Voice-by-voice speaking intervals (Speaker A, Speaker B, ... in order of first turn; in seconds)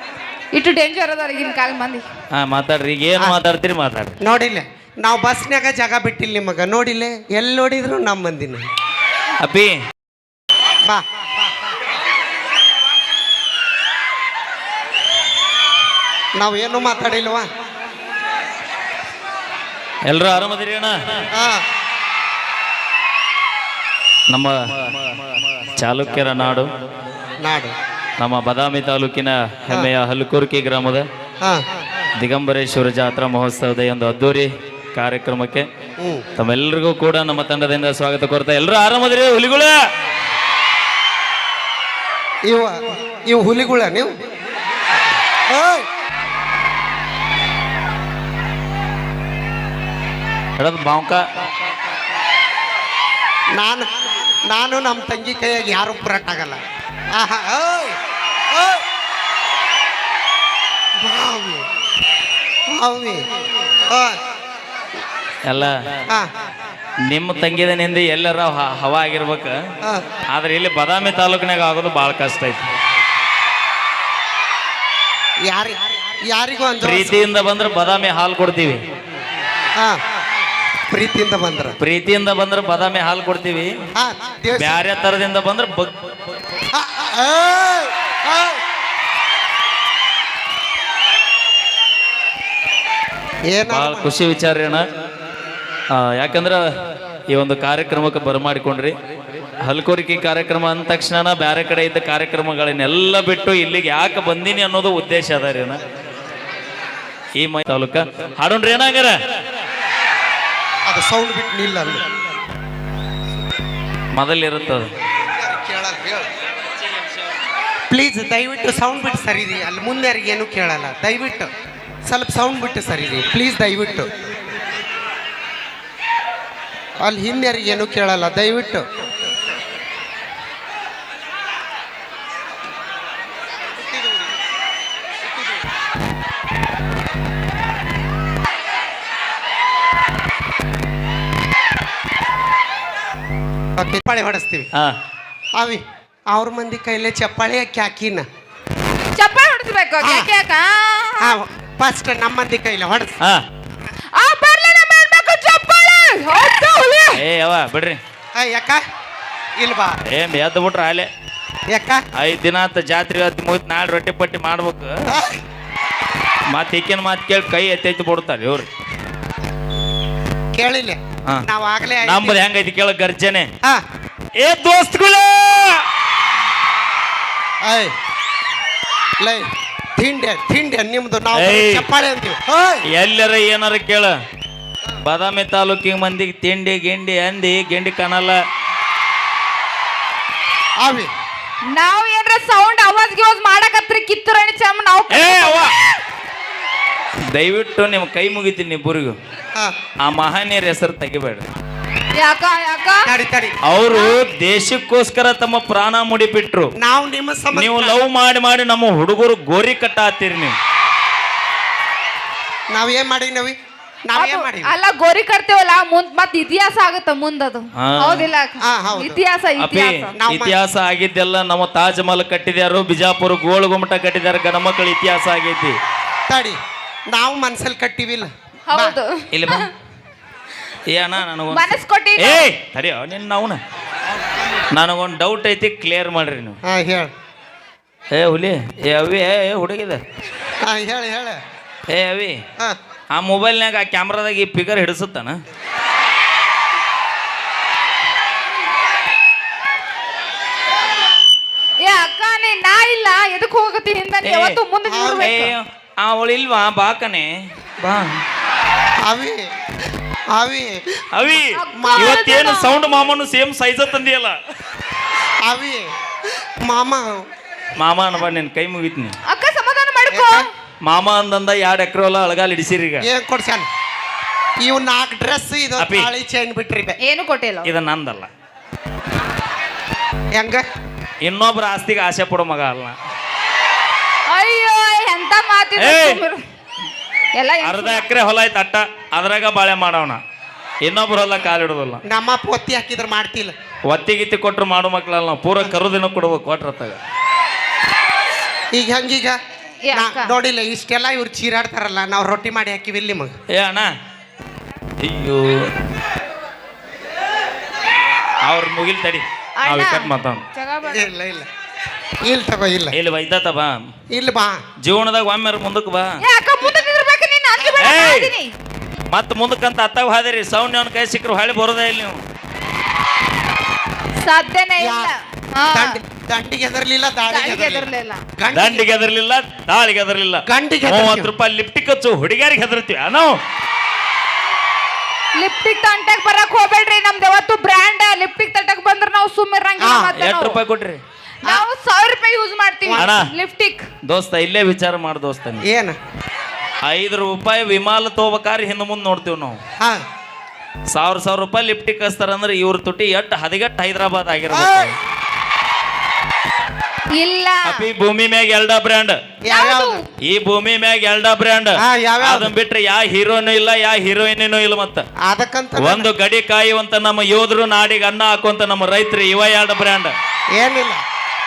Speaker A: 0.5-2.0, 149.2-151.3, 154.2-157.2, 191.7-195.8, 202.2-203.1, 214.2-220.1, 228.7-229.7, 231.5-232.5, 251.8-255.5, 261.5-262.8, 269.3-270.5, 277.0-277.7, 284.3-286.4, 287.4-288.1, 299.9-300.3, 309.6-311.1, 316.2-318.5, 324.2-326.0, 327.3-328.2, 335.4-340.6, 341.4-343.9, 357.2-357.9, 359.5-360.0
Speaker B: 2.3-4.1, 9.4-9.8, 20.1-21.0, 24.3-24.6, 25.8-26.7, 28.2-31.0, 32.2-35.7, 36.4-39.8, 50.6-51.2, 65.5-65.8, 67.1-69.5, 70.3-72.6, 76.8-78.8, 81.8-83.7, 84.6-85.9, 93.7-94.8, 95.9-96.7, 97.3-99.0, 99.6-105.8, 107.4-109.3, 114.1-114.9, 157.1-158.0, 160.0-161.1, 162.1-165.1, 166.5-168.7, 172.0-173.5, 174.4-175.8, 181.3-181.8, 182.9-184.1, 185.0-188.4, 195.1-195.7, 197.3-199.2, 200.0-201.5, 203.6-206.7, 207.5-210.5, 217.8-218.2, 219.6-225.8, 229.3-229.7, 230.9-233.6, 234.7-236.6, 238.1-240.0, 241.9-242.4, 243.1-245.4, 254.2-254.6, 255.2-257.3, 261.1-264.4, 267.8-269.2, 270.8-273.1, 275.8-276.1, 277.6-278.3, 281.2-282.9, 285.8-286.2, 287.6-290.2, 290.8-292.0, 293.9-297.0, 303.5-303.9, 305.0-305.7, 308.4-310.4, 312.9-313.8, 314.8-316.2, 317.8-318.3, 319.1-322.2, 328.5-333.4, 340.1-341.0, 343.0-343.3, 344.0-345.6, 346.8-349.6, 350.9-354.9, 357.6-359.2, 360.2-365.1, 365.8-370.1
Speaker C: 4.2-8.7, 16.4-17.5, 21.3-21.6, 27.4-27.7, 31.4-31.8, 36.0-36.2, 42.5-44.2, 45.3-45.9, 53.5-53.9, 54.5-56.6, 57.1-58.0, 58.5-58.8, 61.0-61.7, 62.7-63.2, 63.9-64.2, 75.5-77.2, 79.8-80.0, 80.9-81.7, 84.0-84.8, 86.7-88.6, 93.5-94.1, 110.9-112.1, 115.3-116.3, 117.9-121.5, 122.0-124.1, 127.0-128.9, 143.8-144.7, 145.6-148.3, 150.0-150.3, 151.2-153.1, 158.3-158.8, 159.6-160.0, 161.7-162.0, 165.1-165.4, 170.5-172.4, 177.6-177.9, 179.2-182.8, 190.8-191.1, 203.0-203.6, 206.8-208.0, 212.7-214.7, 218.6-219.2, 220.2-220.6, 226.3-226.6, 227.1-229.0, 236.6-237.1, 240.6-241.4, 254.9-255.3, 259.0-259.5, 260.3-260.9, 261.7-262.3, 265.4-267.3, 270.1-270.4, 273.0-273.7, 274.6-277.0, 280.3-280.7, 292.1-293.5, 298.7-299.4, 299.9-303.3, 310.9-311.5, 312.2-312.9, 314.1-314.6, 324.8-325.1, 325.7-328.9, 330.5-331.3, 339.8-340.1, 342.9-343.1, 345.6-346.0, 349.8-350.0, 354.5-354.9, 359.4-360.0, 361.8-362.5, 365.2-366.1, 370.5-371.0